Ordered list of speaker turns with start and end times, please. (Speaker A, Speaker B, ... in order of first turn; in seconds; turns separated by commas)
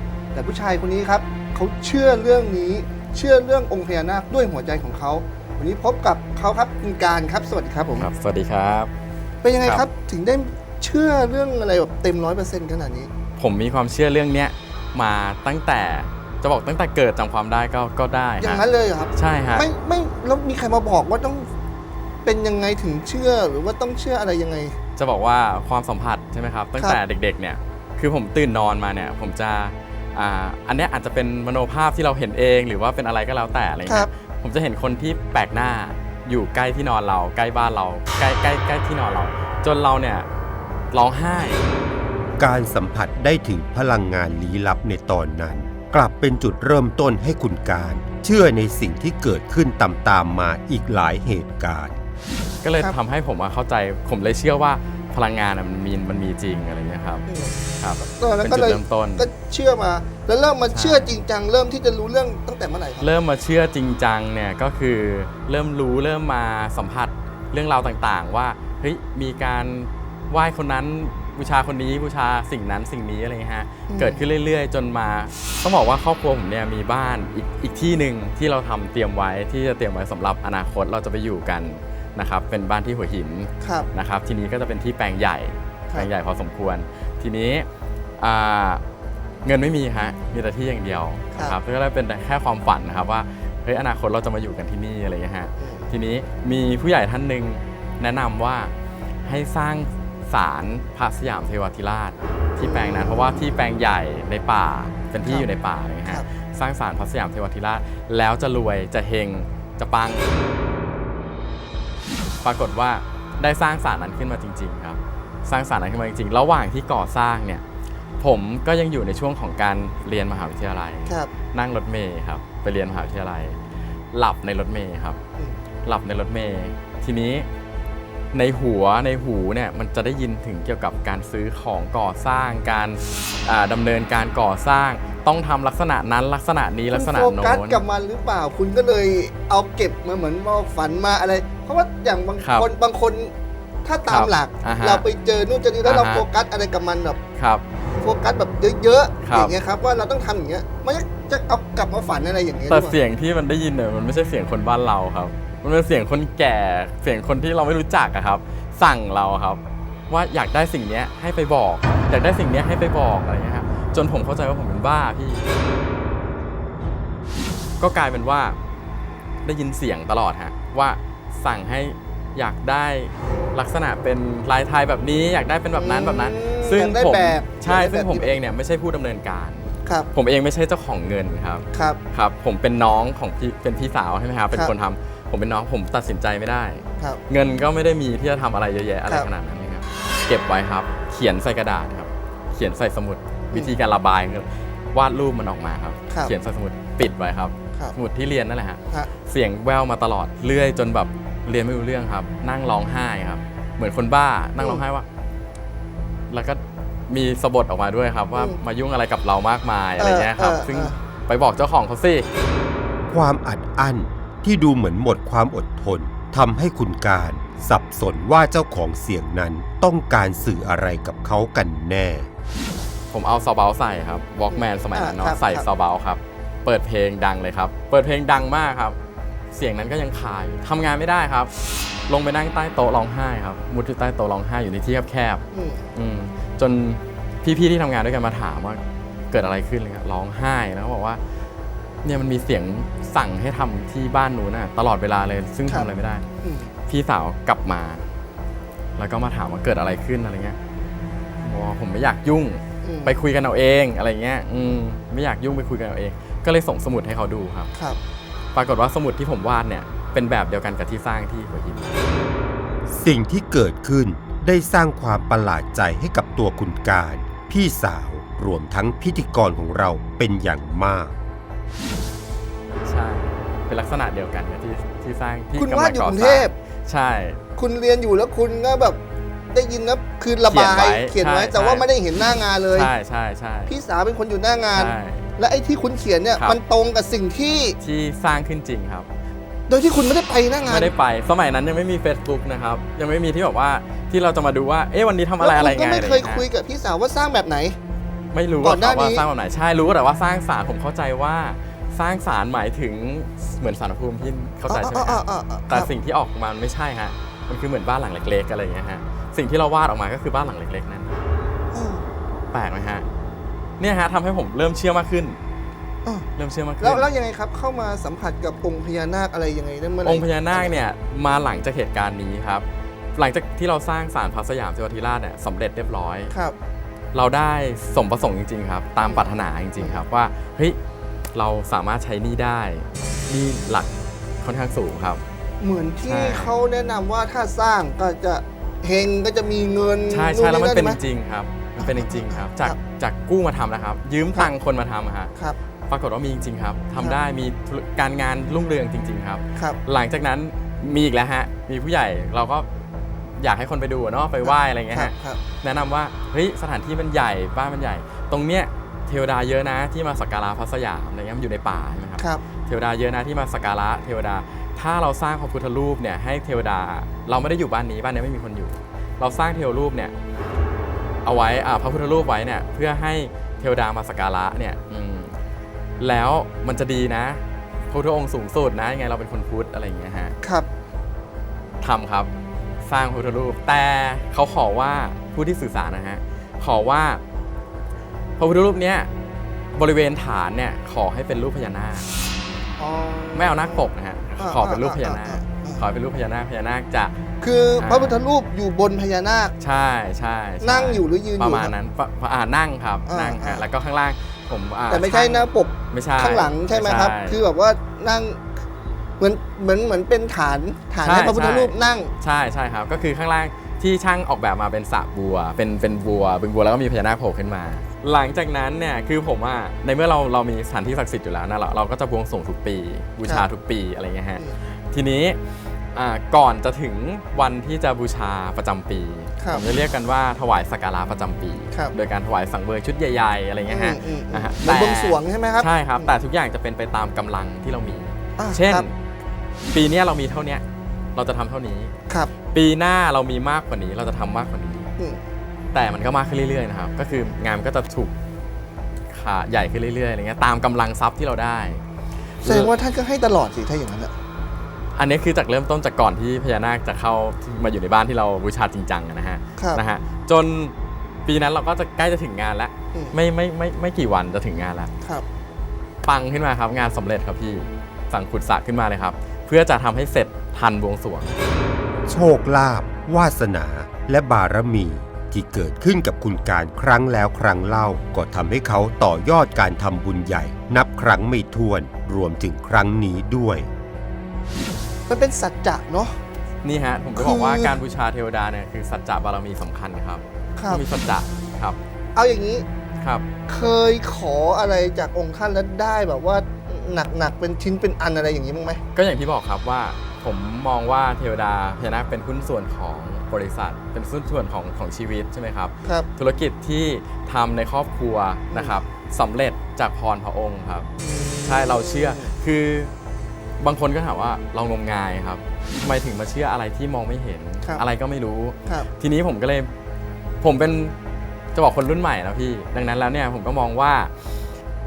Speaker A: 0.3-8.1, Speaker B: 8.0-8.9, Speaker A: 9.4-13.1, Speaker B: 13.4-18.6, Speaker A: 18.4-21.5, Speaker B: 19.1-19.7, Speaker A: 22.2-24.8, Speaker B: 25.0-40.3, Speaker B: 40.9-41.6, Speaker C: 42.4-52.0, Speaker B: 52.6-59.3, Speaker A: 57.3-63.1, Speaker B: 60.7-61.2, Speaker B: 63.0-87.7, Speaker A: 73.9-74.2, Speaker A: 83.6-83.9, Speaker B: 88.2-88.8, Speaker B: 89.5-98.7, Speaker A: 95.6-95.9, Speaker B: 99.2-110.3, Speaker A: 102.6-103.5, Speaker A: 105.2-105.5, Speaker B: 112.4-117.6, Speaker B: 118.2-125.2, Speaker B: 125.8-127.5, Speaker B: 128.3-137.8, Speaker A: 136.9-143.3, Speaker B: 142.4-142.7, Speaker A: 143.8-147.2, Speaker B: 144.1-145.0, Speaker B: 145.8-146.2, Speaker B: 147.4-147.6, Speaker A: 148.0-153.0, Speaker B: 149.2-149.5, Speaker B: 152.7-165.5, Speaker B: 167.8-168.6, Speaker B: 169.4-205.1, Speaker A: 175.8-178.4, Speaker A: 181.7-182.0, Speaker B: 206.3-212.3, Speaker A: 210.0-210.9, Speaker C: 213.1-222.3, Speaker B: 223.1-229.0, Speaker A: 224.5-225.7, Speaker B: 229.5-231.5, Speaker B: 232.1-235.4, Speaker A: 235.5-235.9, Speaker B: 235.9-241.2, Speaker B: 242.0-246.2, Speaker A: 246.4-246.7, Speaker B: 246.9-248.1, Speaker B: 249.0-250.6, Speaker B: 251.4-257.7, Speaker A: 252.8-253.2, Speaker A: 257.7-258.0, Speaker B: 258.6-262.1, Speaker C: 262.9-271.1, Speaker B: 272.8-277.4, Speaker A: 275.6-276.5, Speaker A: 277.6-279.0, Speaker A: 279.5-282.9, Speaker B: 280.4-281.9, Speaker B: 282.7-283.7, Speaker A: 283.7-287.8, Speaker B: 284.7-285.2, Speaker B: 287.8-289.1, Speaker A: 289.7-290.9, Speaker B: 290.6-296.4, Speaker A: 295.4-297.8, Speaker B: 298.3-311.2, Speaker A: 298.6-299.2, Speaker A: 304.7-305.9, Speaker A: 311.7-312.0, Speaker B: 312.5-313.1, Speaker B: 313.8-315.4, Speaker B: 316.4-317.1, Speaker A: 316.8-320.8, Speaker B: 320.0-326.3, Speaker B: 327.1-330.8, Speaker A: 329.0-330.0, Speaker B: 331.3-333.9, Speaker B: 334.4-335.2, Speaker A: 335.6-341.0, Speaker B: 336.1-336.5, Speaker B: 340.1-345.3, Speaker A: 341.8-342.8, Speaker B: 345.9-352.7, Speaker B: 353.4-370.1, Speaker A: 354.4-355.4, Speaker B: 371.2-375.4, Speaker B: 376.0-380.3, Speaker A: 380.4-380.7, Speaker B: 381.8-382.3, Speaker B: 382.8-387.2, Speaker B: 388.4-389.1, Speaker B: 389.8-392.1, Speaker A: 392.8-393.9, Speaker B: 393.3-397.1, Speaker A: 394.4-395.9, Speaker A: 397.4-399.6, Speaker B: 397.8-398.2, Speaker B: 399.6-407.4, Speaker A: 400.6-401.7, Speaker A: 403.1-403.6, Speaker A: 404.9-408.4, Speaker A: 409.2-412.1, Speaker B: 411.0-425.4, Speaker B: 425.9-438.9, Speaker A: 429.4-429.6, Speaker A: 433.7-436.1, Speaker A: 438.4-438.9, Speaker B: 439.7-440.6, Speaker B: 441.1-441.9, Speaker B: 442.5-444.9, Speaker B: 445.7-448.1, Speaker B: 449.1-451.8, Speaker B: 452.4-452.7, Speaker A: 452.4-454.1, Speaker B: 454.9-460.7, Speaker A: 459.6-459.8, Speaker B: 461.3-464.9, Speaker B: 466.0-471.4, Speaker C: 472.1-483.7, Speaker A: 485.1-486.2, Speaker B: 486.6-491.8, Speaker A: 487.2-487.8, Speaker A: 490.6-490.8, Speaker A: 492.1-492.7, Speaker B: 493.0-493.2, Speaker A: 493.5-498.8, Speaker B: 498.9-510.9, Speaker A: 508.5-508.8, Speaker A: 511.0-512.3, Speaker B: 511.4-512.9, Speaker B: 513.6-519.7, Speaker B: 520.4-521.0, Speaker B: 521.5-524.1